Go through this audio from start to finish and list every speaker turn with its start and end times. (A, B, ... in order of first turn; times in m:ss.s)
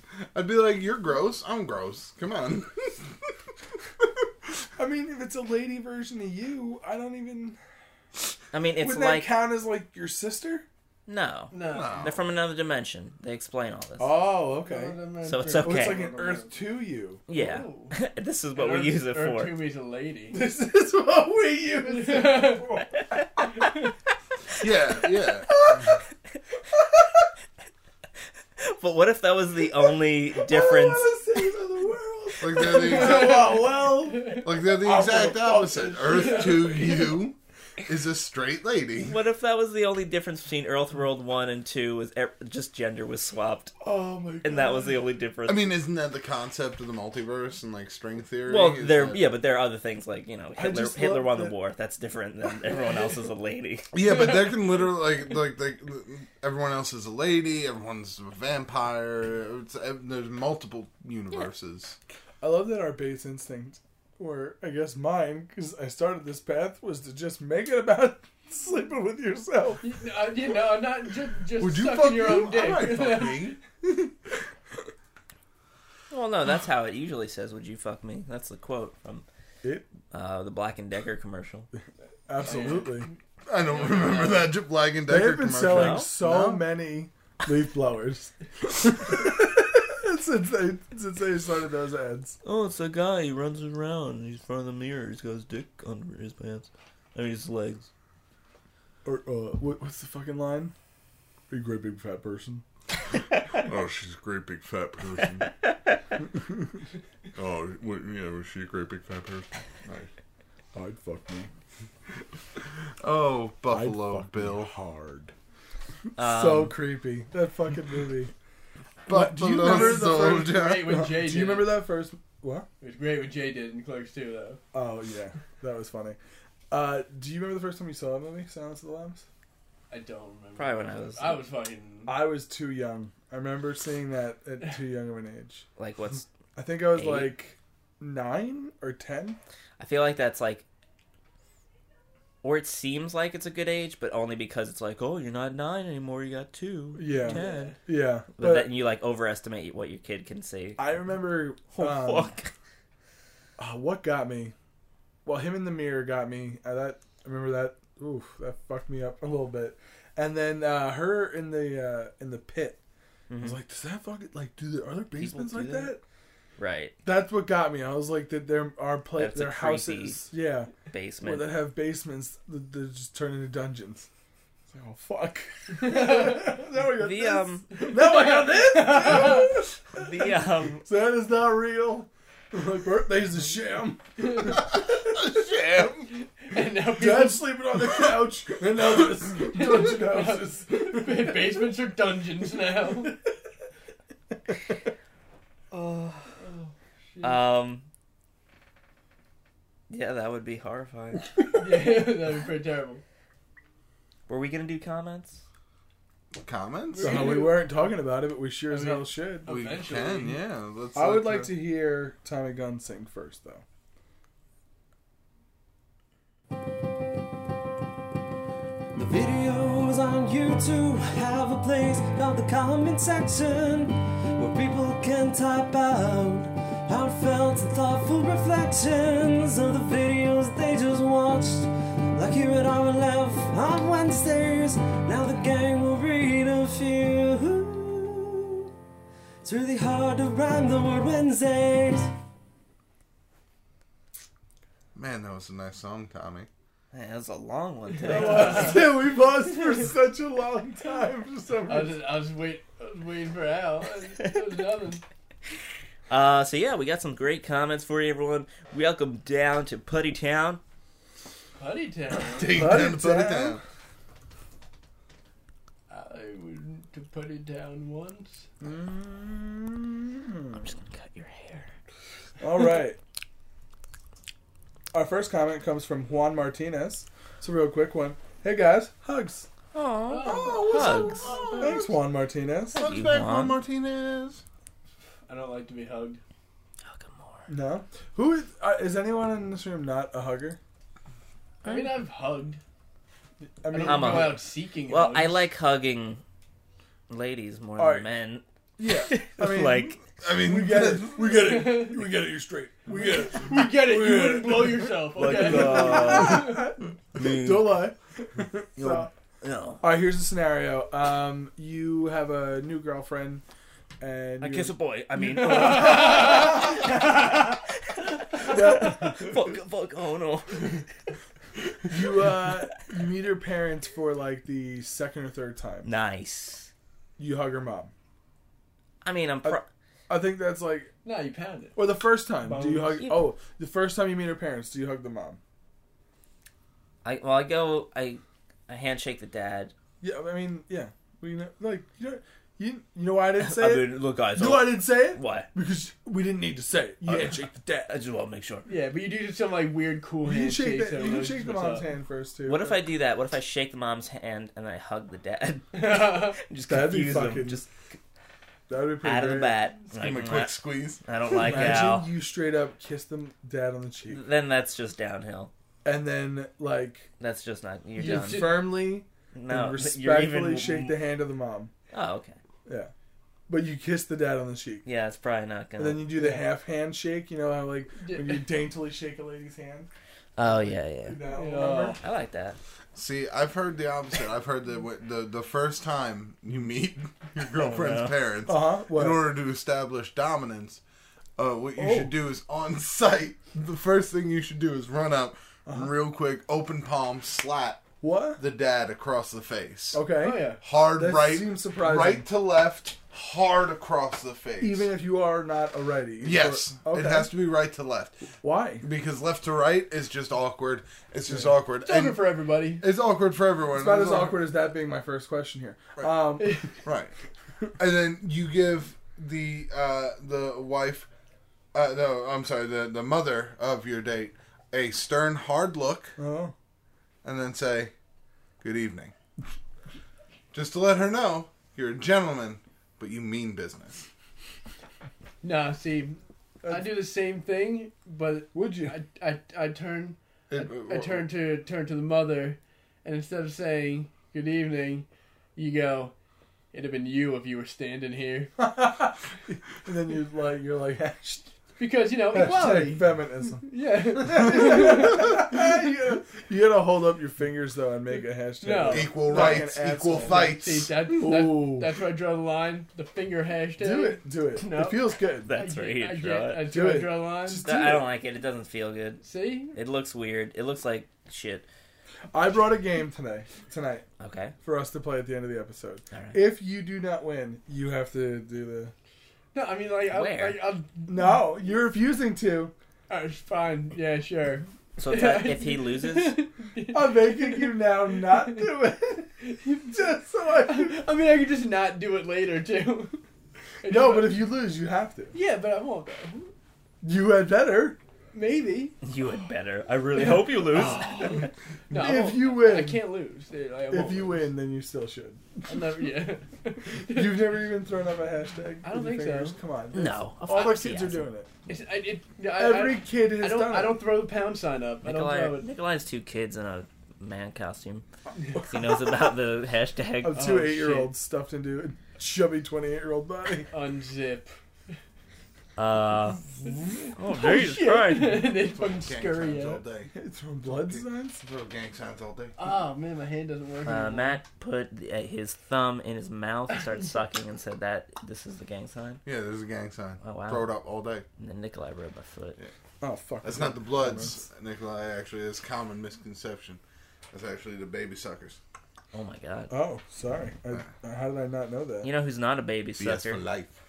0:00.3-0:03.2 A
0:04.8-0:07.6 B
0:08.5-0:09.3 C
0:08.8-0:10.6 B
0:11.1-0:14.2 C
0:11.5-0:12.0 D
0:11.6-0:12.3 A
0:14.0-0:15.0 B
0:14.5-0:16.7 D
0:15.2-0:16.0 C
0:15.6-0:17.2 B
0:17.3-0:19.6 C
0:17.3-0:18.0 D
0:18.6-0:20.4 D
0:20.3-0:23.5 B
0:21.8-0:22.8 D
0:24.6-0:25.8 A
0:25.6-0:26.0 B
0:28.6-0:31.1 C
0:30.3-0:37.2 B
0:32.4-0:33.6 A
0:32.6-0:34.5 D
0:34.4-0:39.2 A
0:36.0-0:37.0 D
0:39.0-0:43.7 C
0:43.8-0:45.0 B
0:44.4-0:45.7 C
0:45.4-0:49.2 A
0:48.5-0:53.9 C
0:50.6-0:51.6 B
0:53.9-1:02.0 A
1:02.4-1:09.8 B
1:09.8-1:13.6 D
1:11.6-1:13.6 A
1:16.1-1:19.2 C
1:19.6-1:19.9 B
1:20.1-1:21.7 C
1:22.3-1:23.1 B
1:22.4-1:23.2 D
1:23.5-1:26.7 A
1:23.7-1:24.5 D
1:25.1-1:32.4 B
1:25.6-1:26.1 C
1:32.4-1:37.9 C
1:39.0-1:40.7 B
1:41.5-1:42.6 B
1:43.7-1:45.5 A
1:47.4-1:50.1 A
1:50.7-1:51.5 B
1:53.0-1:54.7 A
1:53.7-1:55.3 B
1:56.2-1:56.8 C
1:56.2-1:58.3 B
1:59.1-2:01.1 A
1:59.1-2:02.7 B
1:59.6-2:01.8 D
2:02.8-2:04.6 D
2:04.7-2:06.2 B
2:06.7-2:09.2 B
2:09.9-2:12.2 D
2:10.6-2:11.4 C
2:12.1-2:15.7 B
2:15.8-2:16.3 C
2:16.6-2:19.4 B
2:16.9-2:17.4 C
2:19.8-2:20.7 C
2:22.4-2:27.7 C
2:27.0-2:28.7 B
2:27.2-2:27.8 D
2:28.4-2:30.9 C
2:30.8-2:32.3 B
2:31.7-2:32.5 C
2:33.6-2:34.6 B
2:35.2-2:42.8 B
2:43.3-2:43.6 C
2:43.4-2:46.0 B
2:45.2-2:45.9 C
2:46.6-2:46.9 C
2:47.0-2:54.1 B
2:49.2-2:50.3 C
2:50.8-2:51.6 C
2:54.7-3:04.9 B
2:55.8-2:56.5 D
2:57.0-2:57.7 C
2:57.8-2:59.6 D
2:59.9-3:00.9 C
3:04.2-3:04.5 D
3:04.8-3:06.1 A
3:06.2-3:07.6 D
3:06.9-3:11.6 B
3:09.4-3:13.1 D
3:15.7-3:16.4 C
3:16.4-3:17.4 D
3:17.2-3:17.9 C
3:19.9-3:21.3 C
3:21.5-3:23.0 D
3:24.3-3:25.4 C
3:26.4-3:27.4 A
3:26.9-3:27.8 D
3:27.0-3:29.5 B
3:28.7-3:30.4 D
3:29.5-3:31.6 A
3:31.0-3:33.6 B
3:38.9-3:58.7 E
3:59.4-4:02.1 E
4:05.0-4:06.5 A
4:06.9-4:08.8 C
4:08.0-4:09.0 D
4:08.0-4:12.0 B
4:11.7-4:15.0 D
4:16.1-4:20.6 C
4:21.6-4:22.9 D
4:22.3-4:23.6 A
4:22.6-4:23.6 B
4:25.9-4:28.4 D
4:28.6-4:30.6 B
4:30.6-4:31.7 C
4:32.4-4:33.0 B
4:34.9-4:39.5 B
4:39.7-4:41.3 C
4:40.1-4:41.9 D
4:40.2-4:42.0 A
4:41.6-4:42.8 B
4:42.7-4:44.4 A
4:42.8-4:43.6 C
4:45.3-4:46.2 D
4:46.9-4:47.5 C
4:47.5-4:50.6 B
4:51.6-4:51.9 C
4:51.6-4:52.6 D
4:53.6-4:54.4 B
4:53.7-4:55.4 D
4:53.8-4:56.2 C
4:57.1-5:00.0 C
4:57.8-4:58.1 B
4:58.8-5:09.1 B
5:00.2-5:01.4 A
5:01.3-5:02.2 D
5:02.9-5:06.7 D
5:05.2-5:06.6 C
5:07.2-5:07.9 C
5:08.8-5:09.8 C
5:09.8-5:13.4 B
5:14.0-5:14.8 B
5:14.4-5:20.8 C
5:15.2-5:17.1 D
5:16.0-5:16.7 B
5:18.4-5:19.5 B
5:21.9-5:25.9 B
5:25.8-5:26.7 C
5:27.2-5:27.9 B
5:29.0-5:29.7 C
5:29.4-5:30.9 B
5:31.0-5:31.8 D
5:31.8-5:35.4 B
5:32.4-5:33.0 D
5:33.0-5:33.3 C
5:37.0-5:39.7 C
5:40.0-5:47.9 B
5:43.4-5:45.5 C
5:47.0-5:48.7 C
5:48.7-5:51.9 D
5:50.2-5:52.8 B
5:52.5-5:58.0 C
5:55.7-5:56.4 D
5:56.7-5:57.6 B
5:58.7-5:59.6 B
5:59.0-6:02.1 C
5:59.9-6:01.0 A
6:01.4-6:04.2 B
6:04.1-6:05.5 C
6:05.8-6:07.1 B
6:07.2-6:08.7 C
6:08.0-6:08.7 D
6:08.0-6:11.7 B
6:09.3-6:11.0 C
6:11.9-6:12.4 C
6:12.7-6:12.9 B
6:13.5-6:14.9 B
6:14.8-6:16.1 C
6:15.8-6:19.9 B
6:16.2-6:16.5 D
6:18.0-6:18.4 D
6:20.4-6:21.2 C
6:20.4-6:22.0 B
6:21.3-6:22.0 D
6:21.8-6:22.6 C
6:23.0-6:30.8 A
6:27.6-6:28.1 C
6:28.5-6:29.2 B
6:31.4-6:37.8 A
6:31.8-6:32.1 B
6:38.0-6:38.4 B
6:38.4-6:44.9 A
6:39.9-6:42.3 B
6:40.2-6:40.6 D
6:44.6-6:47.3 B
6:46.2-6:48.3 A
6:48.4-6:48.8 B
6:48.8-6:52.2 A
6:51.8-6:52.8 D
6:52.8-6:54.5 A
6:53.7-6:56.6 B
6:56.4-6:56.7 D
6:56.8-6:57.1 A
6:57.8-7:01.1 A
7:01.7-7:06.2 A
7:06.2-7:06.5 B
7:07.2-7:07.9 A
7:08.6-7:09.1 A
7:10.5-7:14.1 A
7:15.4-7:26.1 D
7:16.6-7:16.9 B
7:18.5-7:19.0 B
7:20.5-7:21.3 A
7:26.7-7:28.5 D
7:28.6-7:31.5 B
7:31.8-7:35.8 D
7:32.3-7:40.5 B
7:38.6-7:47.7 D
7:38.9-7:41.1 A
7:41.1-7:41.9 B
7:43.8-7:45.5 B
7:45.5-7:46.7 C
7:46.7-7:48.1 B
7:47.6-7:51.7 C
7:49.2-7:49.8 D
7:52.3-7:54.1 B
7:54.2-7:54.6 C
7:54.6-7:58.9 B
7:56.1-7:56.4 C
7:59.5-8:01.5 D
8:00.1-8:00.6 C
8:01.1-8:02.7 B
8:03.1-8:08.7 D
8:05.0-8:06.4 C
8:06.9-8:09.3 B
8:09.4-8:13.2 D
8:09.9-8:11.1 B
8:13.8-8:14.5 D
8:13.9-8:15.4 B
8:15.3-8:16.5 D
8:17.0-8:18.0 B
8:18.3-8:19.0 D
8:19.0-8:21.5 C
8:20.2-8:24.5 D
8:20.8-8:21.4 B
8:21.9-8:23.1 B
8:23.9-8:26.0 B
8:25.7-8:27.5 D
8:27.1-8:31.5 B
8:28.8-8:29.6 D
8:29.9-8:31.3 C
8:31.7-8:35.7 D
8:32.6-8:34.0 B
8:35.0-8:38.0 C
8:38.6-8:40.5 C
8:40.2-8:43.7 B
8:40.3-8:41.1 D
8:43.7-8:45.0 D
8:45.8-8:46.4 C
8:47.2-8:48.5 C
8:47.2-8:49.8 D
8:48.7-8:50.1 A
8:50.1-8:51.4 B
8:50.6-8:52.6 A
8:52.6-8:54.4 D
8:53.8-8:59.2 C
8:59.2-9:01.3 A
9:00.2-9:00.7 C
9:01.4-9:02.6 C
9:03.0-9:04.4 B
9:03.4-9:06.8 A
9:07.3-9:08.6 A
9:09.1-9:09.7 C
9:09.7-9:12.1 B
9:12.0-9:13.4 C
9:13.0-9:13.8 A